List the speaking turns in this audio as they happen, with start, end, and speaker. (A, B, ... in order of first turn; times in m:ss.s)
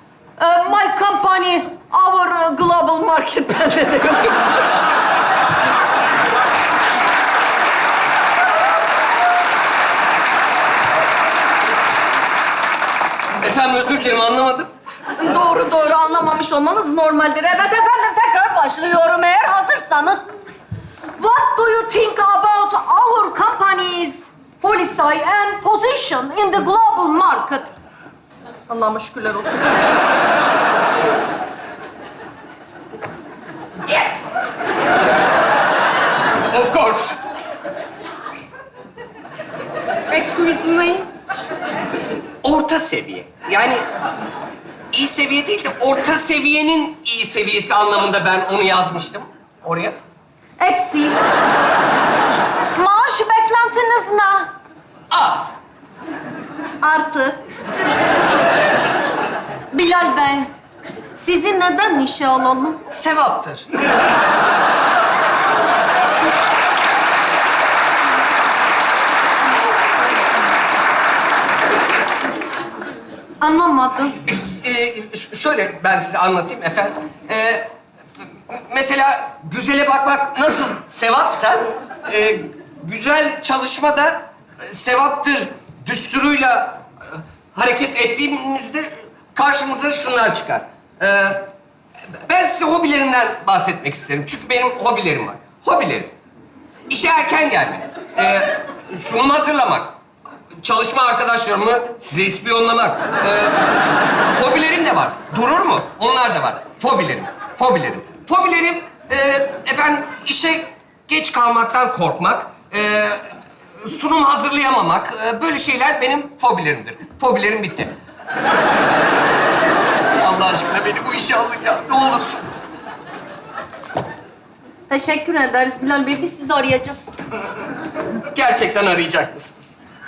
0:00.4-0:04.9 A
0:13.4-0:14.7 B
0:15.1-0:20.3 A
0:21.2-0:27.7 A
0:28.7-0:29.8 A
0:33.8-0:34.2 B
0:36.5-0:37.2 B
0:40.1-0:41.1 A
0:42.4-0:43.8 B
0:44.9-0:50.0 B
0:50.6-0:51.2 A
0:52.7-0:54.5 A
0:55.1-0:55.5 B
0:56.8-0:57.4 A
0:59.7-1:00.5 A
1:01.2-1:02.8 A
1:02.9-1:03.6 B
1:13.4-1:14.1 A
1:14.3-1:17.7 B
1:18.5-1:31.5 B
1:32.1-1:36.1 B
1:36.9-1:40.0 B
1:40.6-1:43.6 B
1:44.3-1:53.2 B
1:53.8-1:57.9 B
2:00.2-2:02.6 B
2:04.9-2:07.1 A
2:08.3-2:09.8 B